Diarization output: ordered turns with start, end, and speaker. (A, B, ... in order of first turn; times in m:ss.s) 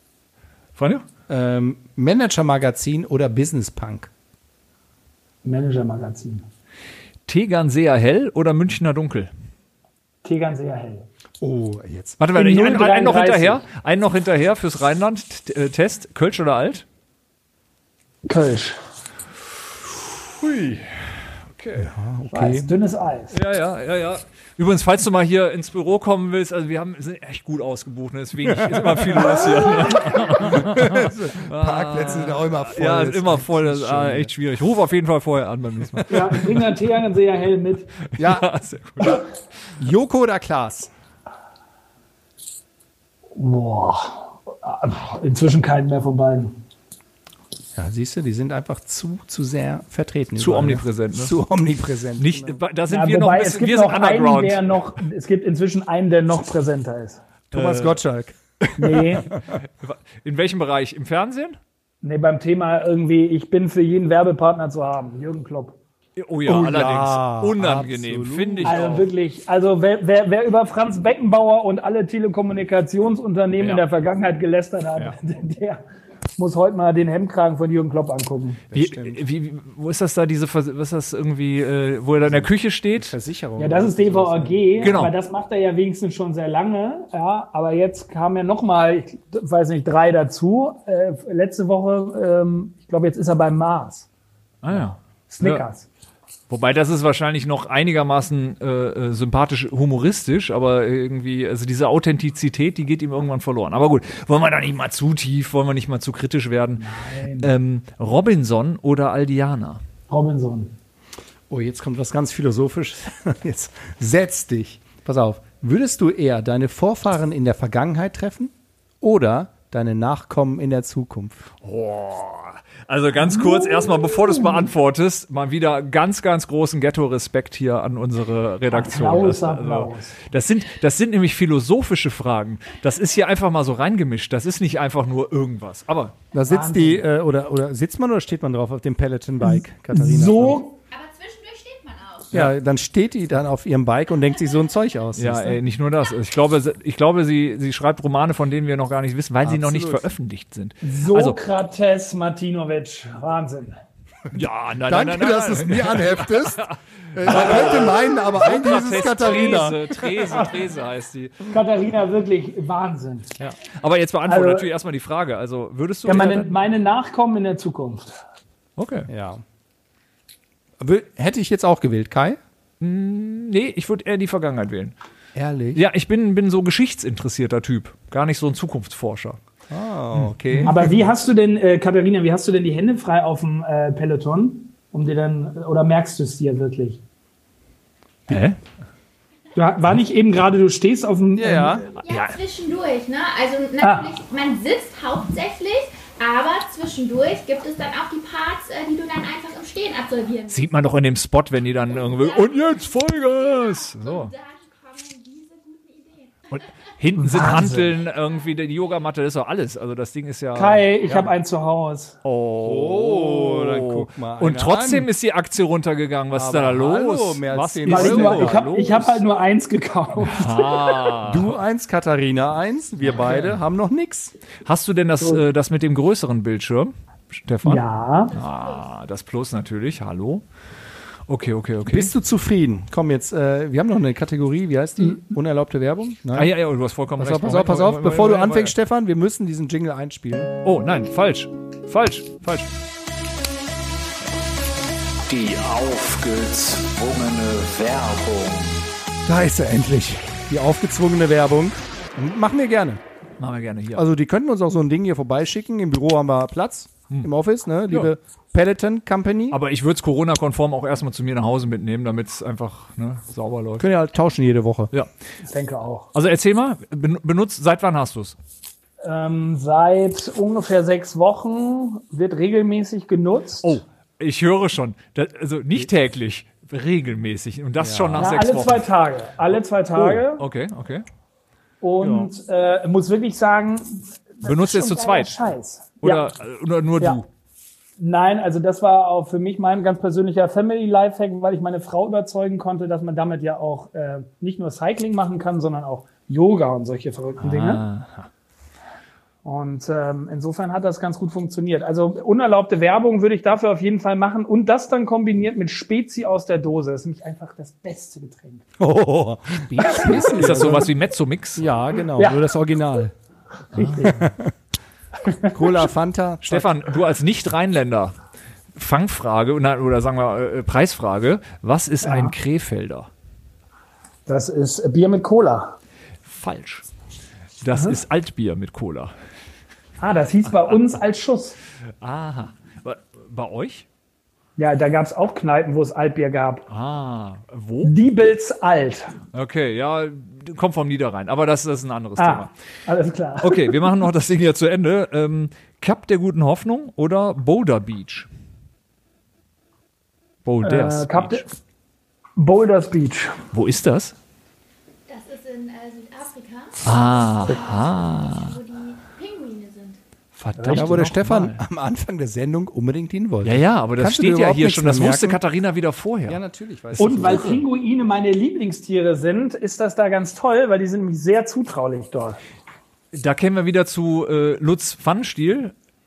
0:00.8-0:01.1 A
0:01.3-0:04.1 B
0:05.4-0:06.4 C
0:07.3-0:09.3 A
0:10.2-0:11.1 C
0:11.4-0:12.2 B
0:12.2-0:16.8 A
0:12.3-0:13.6 C
0:18.2-0:18.8 C
0:20.4-0:21.0 A
0:21.5-0:21.9 A
0:21.8-0:22.7 B
0:22.3-0:23.3 C
0:23.3-0:36.4 A
0:28.5-0:29.5 B
0:30.3-0:34.3 B
0:36.0-0:36.3 B
0:36.1-0:37.9 C
0:38.1-0:39.2 A
0:38.2-0:38.5 B
0:39.8-0:40.9 B
0:43.4-0:46.6 C
0:47.8-0:52.6 B
0:50.4-0:51.4 A
0:52.2-0:54.6 A
0:52.9-0:57.2 C
0:57.5-0:58.0 A
0:57.5-0:59.2 B
0:58.8-0:59.3 C
0:59.5-1:01.6 A
1:02.0-1:05.8 C
1:06.2-1:09.1 A
1:06.4-1:08.8 B
1:08.6-1:15.8 C
1:13.6-1:13.8 A
1:16.4-1:18.6 C
1:18.7-1:19.2 B
1:18.7-1:23.2 A
1:22.2-1:25.0 B
1:23.6-1:34.1 C
1:24.8-1:25.1 A
1:34.6-1:35.6 A
1:35.3-1:35.9 C
1:36.5-1:46.8 A
1:46.8-1:47.5 C
1:47.4-1:49.8 A
1:50.1-1:50.8 C
1:51.5-2:01.4 B
2:01.6-2:16.2 A
2:03.2-2:04.7 C
2:08.7-2:10.2 C
2:16.3-2:20.6 B
2:16.5-2:17.0 C
2:19.5-2:20.7 C
2:20.9-2:22.3 D
2:22.3-2:25.6 B
2:25.2-2:31.4 A
2:29.4-2:30.1 B
2:30.8-2:33.8 C
2:34.3-2:41.5 A
2:34.8-2:40.0 B
2:41.5-2:43.3 C
2:43.4-2:46.6 A
2:44.3-2:44.7 C
2:46.0-2:48.2 C
2:48.8-2:49.1 A
2:49.1-2:49.4 B
2:50.8-2:52.4 B
2:52.8-2:55.0 A
2:55.4-2:55.8 B
2:55.7-2:59.4 A
2:59.7-3:00.9 B
3:00.1-3:00.7 A
3:00.6-3:07.0 C
3:08.3-3:08.6 A
3:09.6-3:11.8 C
3:11.4-3:11.8 B
3:12.0-3:12.4 A
3:12.0-3:20.7 D
3:13.8-3:14.1 C
3:20.5-3:24.3 A
3:21.9-3:26.7 D
3:26.5-3:31.3 A
3:27.2-3:27.9 C
3:28.0-3:28.5 D
3:30.5-3:32.2 C
3:32.2-3:39.2 A
3:32.6-3:35.1 B
3:36.3-3:38.7 B
3:37.9-3:41.2 C
3:40.3-3:41.6 A
3:41.3-3:44.3 B
3:43.1-3:43.6 A
3:44.7-3:50.4 A
3:47.6-3:48.3 C
3:48.3-3:48.9 D
3:51.3-3:52.1 A
3:51.9-3:56.5 B
3:56.3-3:58.8 A
3:57.2-4:00.5 B
4:00.6-4:02.7 A
4:05.3-4:08.7 A
4:09.2-4:13.0 B
4:13.4-4:14.1 A
4:14.0-4:19.6 B
4:19.5-4:23.9 A
4:23.8-4:24.9 B
4:25.5-4:26.1 C
4:26.1-4:28.4 A
4:29.0-4:33.7 C
4:33.6-4:38.8 A
4:37.8-4:38.4 B
4:38.2-4:40.4 C
4:39.5-4:41.0 A
4:41.8-4:46.3 C
4:42.0-4:42.3 B
4:44.4-4:45.3 A
4:46.0-4:47.2 A
4:48.0-4:57.8 C
4:57.4-4:58.3 A
4:59.4-5:08.7 C
5:08.8-5:10.9 B
5:09.7-5:11.7 A
5:09.8-5:10.8 C
5:11.6-5:13.1 B
5:12.2-5:12.5 C
5:13.7-5:14.2 A
5:13.8-5:14.2 C
5:14.0-5:14.5 B
5:15.2-5:15.6 C
5:15.5-5:16.7 B
5:16.4-5:18.2 A
5:18.8-5:23.1 A
5:22.0-5:22.3 C
5:24.3-5:25.8 C
5:26.3-5:26.9 A
5:27.6-5:29.1 A
5:30.0-5:31.6 C
5:30.5-5:30.8 A
5:32.0-5:33.9 A
5:34.6-5:36.7 C
5:36.7-5:37.9 A
5:37.8-5:39.2 C
5:39.3-5:42.5 A
5:42.2-5:43.8 C
5:43.4-5:48.3 A
5:50.4-5:51.4 A
5:50.6-5:51.5 C
5:52.4-5:53.4 C
5:53.5-5:54.2 A
5:55.1-6:00.0 D
5:56.8-5:58.6 A
6:00.4-6:01.6 A
6:00.6-6:00.9 C
6:00.7-6:05.4 B
6:03.4-6:06.4 A
6:06.3-6:07.6 B
6:07.0-6:12.4 C
6:07.0-6:07.6 A
6:13.1-6:15.7 A